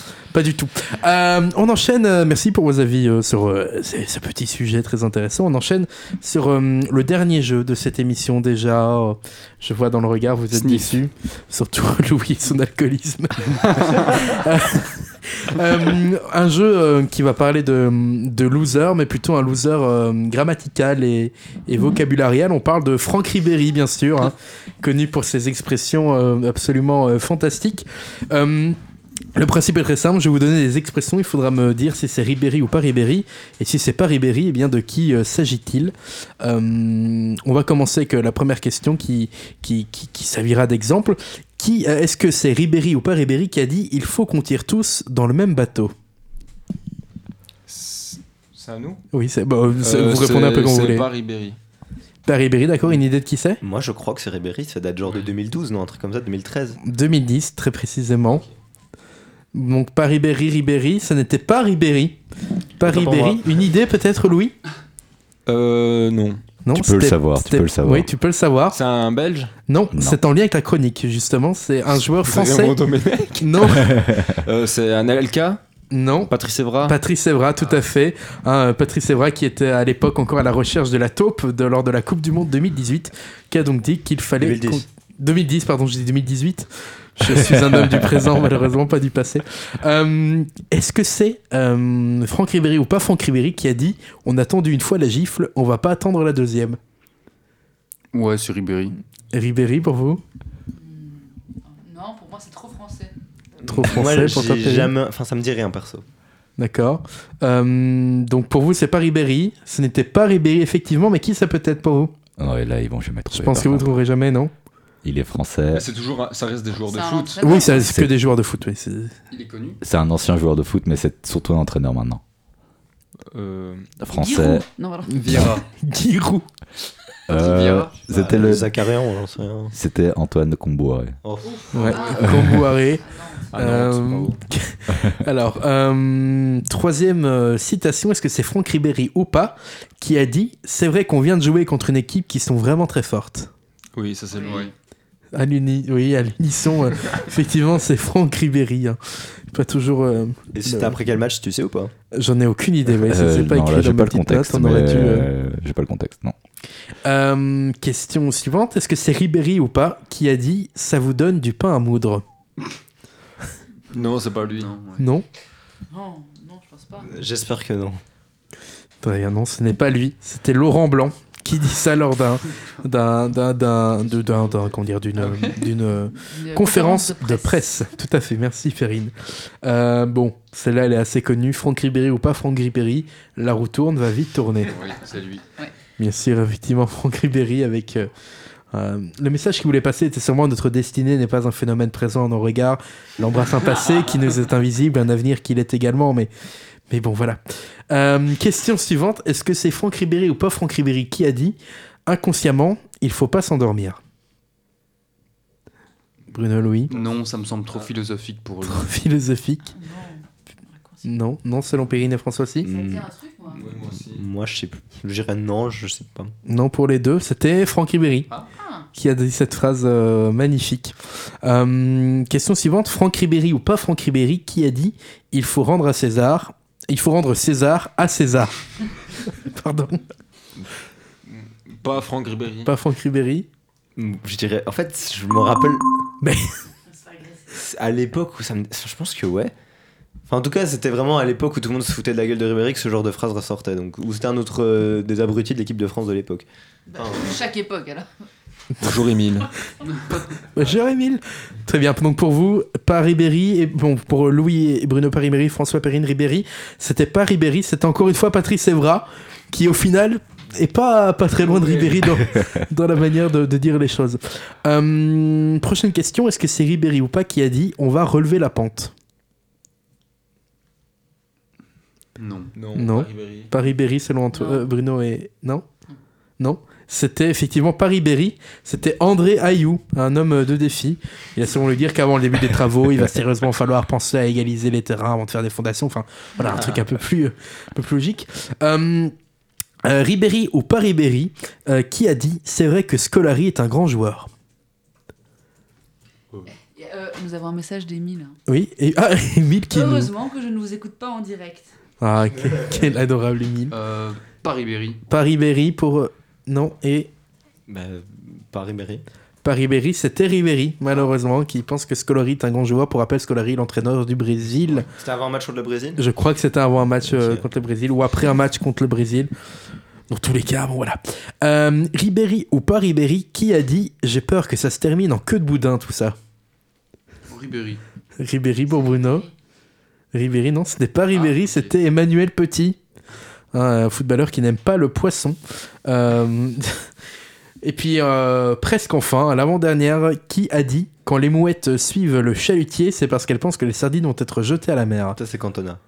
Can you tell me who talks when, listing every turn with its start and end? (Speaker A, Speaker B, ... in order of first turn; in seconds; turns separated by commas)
Speaker A: 0.3-28.8, Speaker B: 10.5-10.9, Speaker B: 13.6-14.2, Speaker A: 29.3-45.9, Speaker C: 47.7-49.0, Speaker A: 49.1-51.1, Speaker C: 49.8-51.5, Speaker A: 52.2-53.6, Speaker D: 53.6-56.8, Speaker A: 56.8-58.4, Speaker A: 59.5-62.2, Speaker A: 62.8-64.5, Speaker D: 62.8-63.4, Speaker C: 65.5-66.4, Speaker A: 66.6-68.8, Speaker E: 66.7-68.1, Speaker C: 68.7-69.5, Speaker A: 69.7-72.8, Speaker E: 69.9-70.2, Speaker C: 71.9-73.4, Speaker A: 73.3-74.0, Speaker E: 73.8-74.4, Speaker C: 74.4-75.6, Speaker A: 75.9-76.3, Speaker C: 76.3-77.0, Speaker A: 76.8-96.8, Speaker D: 84.4-84.8, Speaker E: 87.5-88.2, Speaker B: 98.1-99.0, Speaker A: 99.3-100.2, Speaker F: 100.7-103.1, Speaker A: 103.6-104.9, Speaker D: 103.6-106.0, Speaker A: 106.6-112.1, Speaker E: 112.4-114.0, Speaker A: 113.3-114.5, Speaker E: 115.0-115.9, Speaker C: 115.7-117.6, Speaker F: 116.8-118.0, Speaker A: 117.4-119.1, Speaker E: 117.9-118.1, Speaker B: 119.3-119.8, Speaker E: 119.8-122.2, Speaker C: 123.3-124.0, Speaker F: 124.0-125.6, Speaker E: 124.1-124.7, Speaker A: 125.1-126.5, Speaker B: 125.2-125.6, Speaker E: 127.3-128.7, Speaker B: 127.3-127.9, Speaker D: 128.1-129.7, Speaker E: 129.7-131.2, Speaker D: 131.2-132.3, Speaker F: 131.4-133.5, Speaker A: 131.7-133.0, Speaker C: 133.5-134.4, Speaker A: 133.6-143.5, Speaker C: 143.9-144.7, Speaker F: 144.3-144.7, Speaker A: 145.3-151.0, Speaker D: 150.5-151.9, Speaker A: 152.1-155.3, Speaker E: 153.0-156.3, Speaker A: 157.0-162.2, Speaker C: 163.9-164.7, Speaker B: 164.4-165.0, Speaker A: 165.0-165.2, Speaker F: 165.9-167.1, Speaker D: 167.0-168.0, Speaker A: 169.0-184.8, Speaker F: 175.2-177.8, Speaker B: 184.7-185.4, Speaker A: 186.0-188.1, Speaker A: 188.7-196.3, Speaker A: 196.9-204.0, Speaker A: 206.3-206.9, Speaker B: 206.9-208.9, Speaker A: 208.6-209.7, Speaker F: 209.7-211.1, Speaker A: 211.0-212.7, Speaker D: 212.6-213.1, Speaker F: 212.6-213.7, Speaker C: 213.6-214.2, Speaker D: 214.1-216.3, Speaker A: 216.4-218.3, Speaker F: 218.4-218.9, Speaker A: 218.9-228.5, Speaker A: 229.2-230.0, Speaker C: 231.2-232.7, Speaker A: 232.6-233.5, Speaker D: 234.0-235.8, Speaker A: 236.2-236.6, Speaker F: 236.9-237.5, Speaker D: 237.5-239.5, Speaker D: 240.3-247.4, Speaker F: 246.9-248.1, Speaker C: 248.8-249.5, Speaker A: 250.4-268.9, Speaker C: 261.4-262.1, Speaker B: 272.2-272.5, Speaker C: 272.5-273.5, Speaker A: 272.7-275.6, Speaker F: 274.3-274.7, Speaker A: 276.4-289.1, Speaker A: 289.8-294.3, Speaker F: 296.5-298.4, Speaker A: 298.5-300.1, Speaker F: 299.7-301.7, Speaker A: 302.0-303.7, Speaker B: 303.7-305.0, Speaker A: 305.1-307.1, Speaker D: 307.7-309.0, Speaker A: 309.4-314.9, Speaker D: 314.7-316.0, Speaker A: 316.0-319.3, Speaker D: 317.1-317.4, Speaker A: 320.1-326.1, Speaker B: 327.3-327.8, Speaker A: 328.2-329.2, Speaker F: 328.7-329.3, Speaker A: 330.1-332.8, Speaker B: 331.1-331.7, Speaker A: 333.5-336.8, Speaker A: 337.6-345.2, Speaker D: 345.1-345.8